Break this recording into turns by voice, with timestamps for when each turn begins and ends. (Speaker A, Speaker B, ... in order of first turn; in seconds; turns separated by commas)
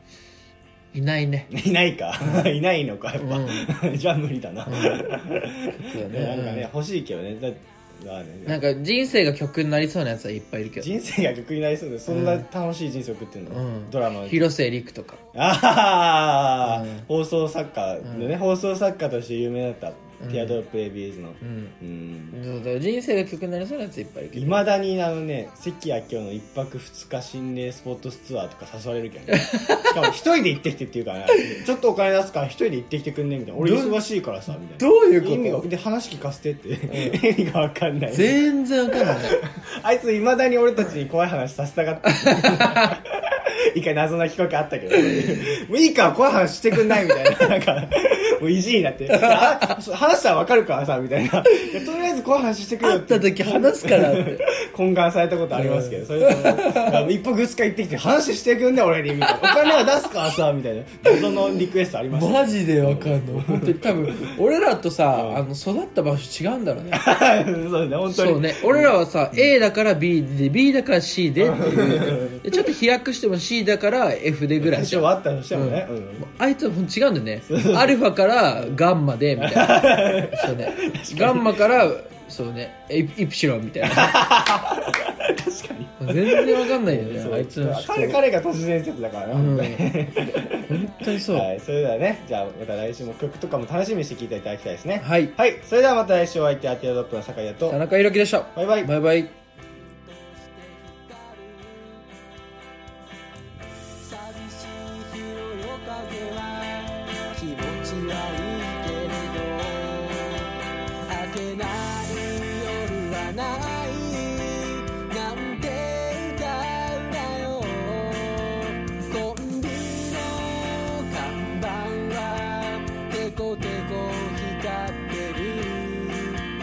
Speaker A: 0.9-1.5, Speaker B: 1.5-8.6, Speaker A: 3.2-3.7, Speaker A: 4.7-5.2, Speaker A: 5.8-6.7, Speaker A: 8.5-10.9, Speaker B: 10.8-14.5, Speaker A: 12.1-12.5, Speaker A: 13.5-15.2, Speaker B: 15.3-22.4, Speaker A: 16.6-17.1, Speaker A: 18.0-18.3, Speaker A: 20.2-20.6, Speaker A: 21.4-21.8, Speaker A: 22.3-24.7, Speaker B: 24.3-38.4, Speaker A: 29.3-30.1, Speaker A: 33.6-34.0, Speaker A: 34.8-35.7, Speaker A: 36.9-37.2, Speaker A: 38.1-39.4, Speaker B: 38.9-64.3, Speaker A: 42.2-42.9, Speaker A: 45.0-45.4, Speaker A: 49.1-49.7, Speaker A: 52.8-54.4, Speaker A: 55.5-57.1, Speaker A: 59.2-59.8, Speaker A: 62.1-67.0, Speaker B: 65.1-65.4, Speaker B: 66.9-69.5, Speaker A: 68.1-84.2, Speaker B: 71.4-72.7, Speaker B: 74.6-76.3, Speaker B: 77.5-78.0, Speaker B: 79.4-81.9, Speaker B: 83.8-97.8, Speaker A: 86.0-88.2, Speaker A: 89.3-89.9, Speaker A: 90.7-91.5, Speaker A: 95.0-95.3, Speaker A: 97.7-99.3, Speaker B: 98.5-98.9, Speaker C: 99.8-102.1, Speaker C: 104.0-126.5